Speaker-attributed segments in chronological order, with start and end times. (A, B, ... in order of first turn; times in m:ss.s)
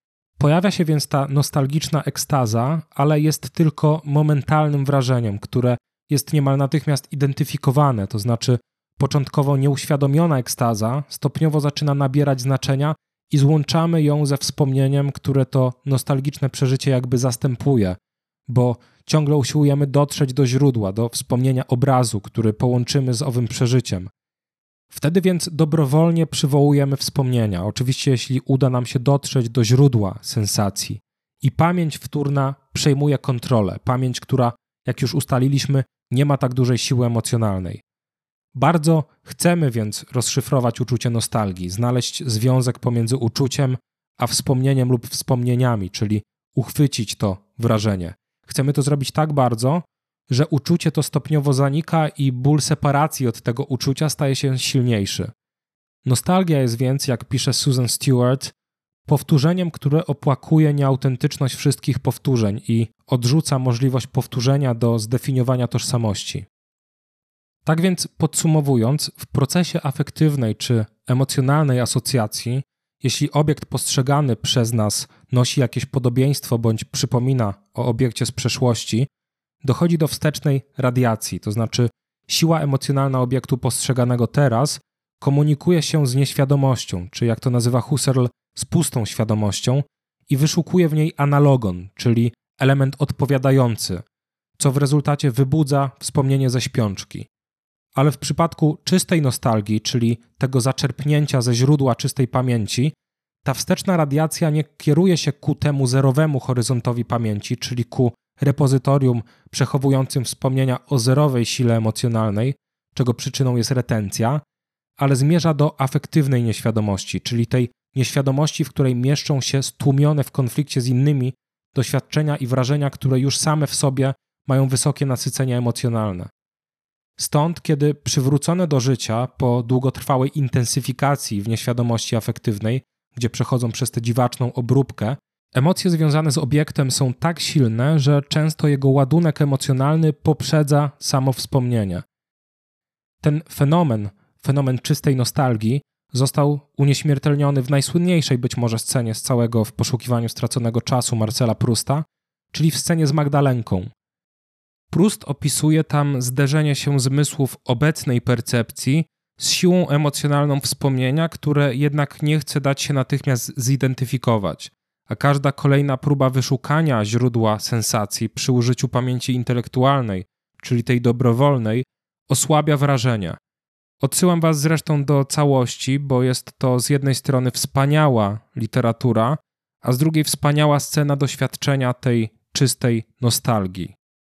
0:00.4-0:24.1 A
0:24.9-0:37.8 A
0:38.6-0:55.3 A
0:56.0-0:58.5 A
0:59.1-1:06.5 A
1:07.6-1:19.1 A
1:19.6-1:34.0 A
1:34.6-1:37.3 A
1:38.0-1:42.9 A
1:43.4-1:54.4 A
1:55.0-2:06.3 A
2:07.2-2:22.0 A
2:23.2-2:33.9 A
2:34.9-2:53.4 A
2:54.0-3:04.0 A